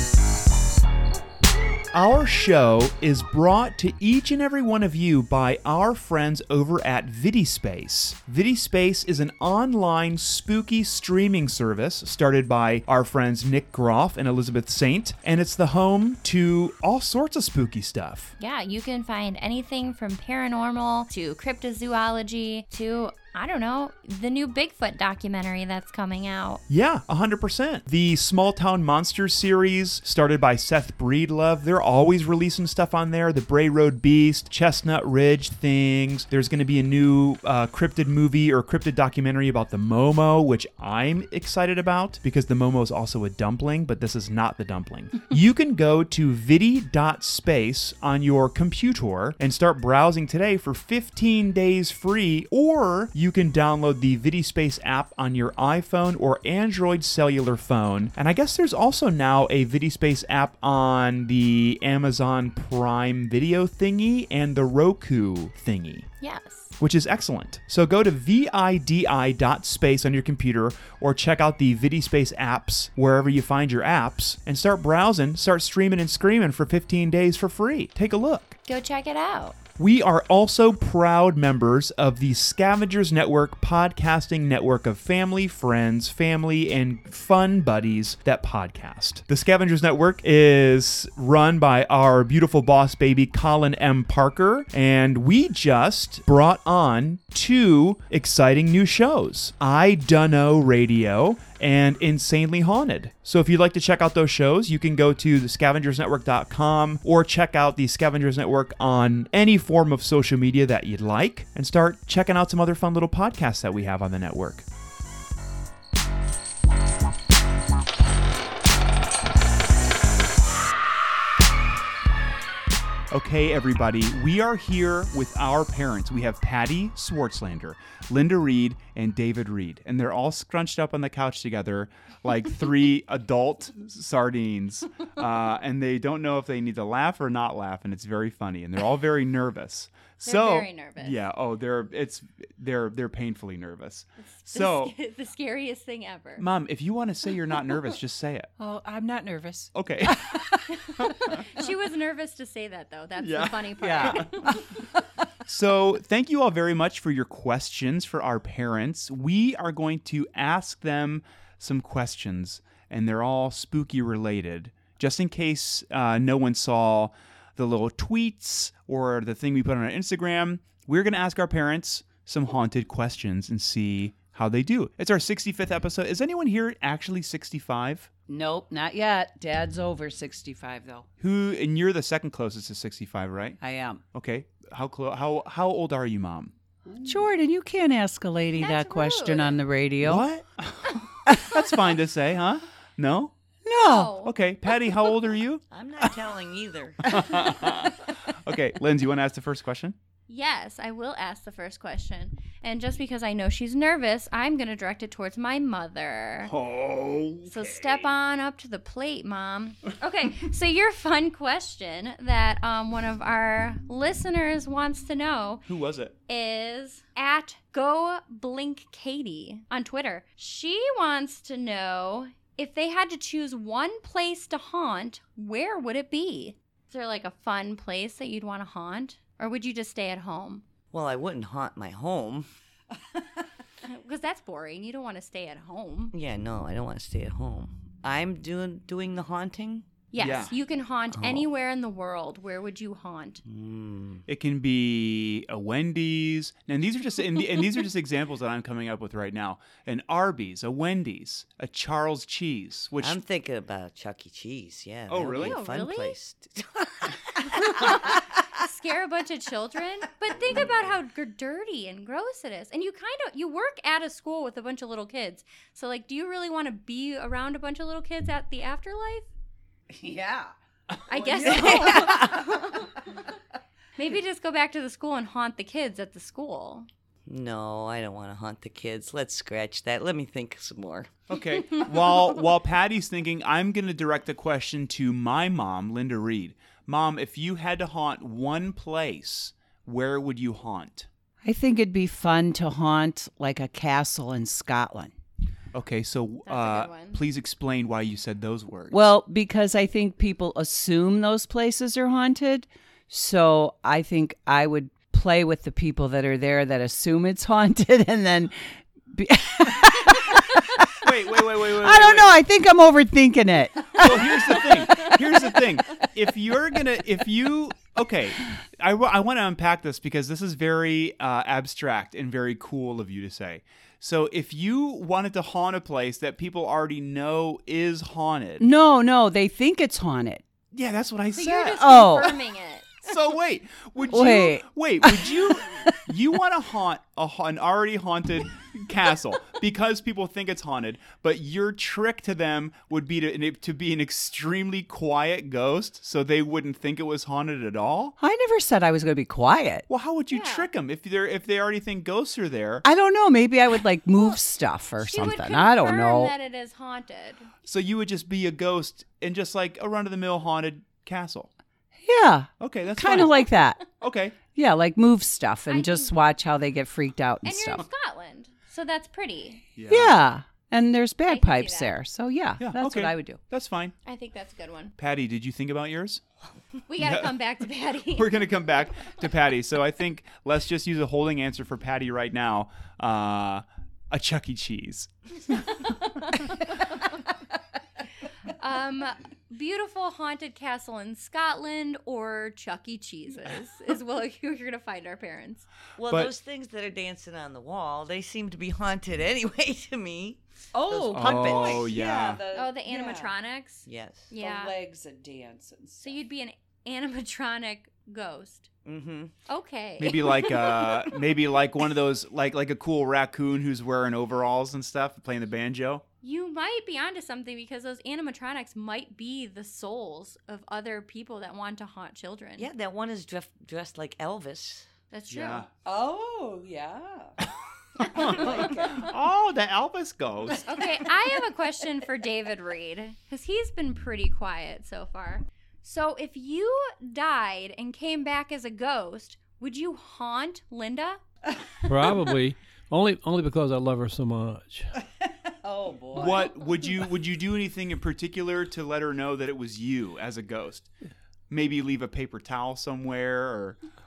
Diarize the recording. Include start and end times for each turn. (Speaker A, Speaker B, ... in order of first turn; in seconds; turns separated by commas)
Speaker A: 1.9-18.3, Speaker B: 18.4-26.6, Speaker A: 26.7-66.1, Speaker B: 66.2-66.7, Speaker A: 66.8-78.6, Speaker B: 78.7-79.6, Speaker A: 79.8-114.7, Speaker A: 123.1-144.9, Speaker B: 140.2-141.2, Speaker B: 144.3-146.4, Speaker A: 146.4-148.5, Speaker C: 148.6-150.6, Speaker A: 149.7-150.4, Speaker B: 150.7-154.6, Speaker A: 151.0-151.3, Speaker A: 153.2-154.3, Speaker C: 153.8-154.6, Speaker A: 155.4-178.1, Speaker C: 178.3-181.1, Speaker A: 181.2-183.6, Speaker C: 183.6-184.0, Speaker A: 184.1-186.5, Speaker C: 187.0-190.2, Speaker B: 188.6-189.5, Speaker A: 190.0-193.3, Speaker C: 191.3-191.5, Speaker C: 193.6-194.1, Speaker B: 193.8-194.3, Speaker A: 194.2-195.6, Speaker D: 195.7-197.3, Speaker A: 197.1-199.9, Speaker B: 200.3-206.5, Speaker A: 206.4-208.1, Speaker B: 207.4-215.6, Speaker A: 215.7-216.1, Speaker B: 216.3-230.6, Speaker D: 230.9-232.5, Speaker B: 233.8-236.1, Speaker D: 236.1-239.9, Speaker B: 240.1-243.4, Speaker A: 240.2-240.5, Speaker D: 241.2-241.4, Speaker A: 244.2-253.2, Speaker D: 253.0-258.2, Speaker A: 255.1-255.7, Speaker B: 255.3-256.1, Speaker B: 257.5-269.3, Speaker C: 269.9-270.5, Speaker B: 271.1-273.2, Speaker C: 271.1-272.9, Speaker D: 271.8-272.1, Speaker B: 273.9-276.9, Speaker D: 277.3-281.2, Speaker A: 281.3-291.1, Speaker C: 291.4-295.1, Speaker A: 295.7-299.1, Speaker B: 296.5-297.2, Speaker C: 298.9-315.1, Speaker A: 311.0-312.4, Speaker A: 314.0-328.6, Speaker C: 328.6-330.4, Speaker A: 330.7-332.3, Speaker B: 331.3-333.2, Speaker C: 331.7-332.3, Speaker A: 333.0-348.2, Speaker C: 334.1-336.1, Speaker C: 348.2-349.9, Speaker A: 349.9-352.8, Speaker B: 350.3-350.7, Speaker C: 352.8-356.3, Speaker B: 355.0-357.5, Speaker A: 357.6-361.5, Speaker C: 362.0-363.8, Speaker A: 362.6-363.5, Speaker A: 364.0-364.4, Speaker C: 364.5-367.8, Speaker B: 365.7-366.2, Speaker B: 367.4-369.6, Speaker A: 369.8-370.2, Speaker C: 369.9-373.4, Speaker B: 371.3-371.9, Speaker A: 372.6-373.9, Speaker B: 374.0-374.9, Speaker A: 375.0-376.2, Speaker B: 376.9-378.4, Speaker A: 377.0-377.4, Speaker A: 378.1-385.8, Speaker B: 385.7-387.1, Speaker B: 388.5-395.7, Speaker D: 395.9-401.9, Speaker A: 396.1-396.3, Speaker C: 400.7-403.3, Speaker A: 401.1-402.4, Speaker B: 402.5-404.7, Speaker D: 403.9-404.3, Speaker C: 404.4-406.2, Speaker B: 406.0-408.7, Speaker D: 408.8-409.3, Speaker B: 409.5-411.1, Speaker A: 410.0-416.0, Speaker B: 416.2-422.7, Speaker D: 422.6-424.9, Speaker B: 425.1-425.6, Speaker A: 425.3-425.7, Speaker C: 425.8-427.4, Speaker B: 428.0-428.5, Speaker A: 428.1-430.6, Speaker C: 428.2-429.1, Speaker C: 430.6-430.9, Speaker B: 430.6-441.2, Speaker E: 441.8-444.9, Speaker C: 445.5-446.5, Speaker A: 446.1-450.9, Speaker A: 451.5-453.8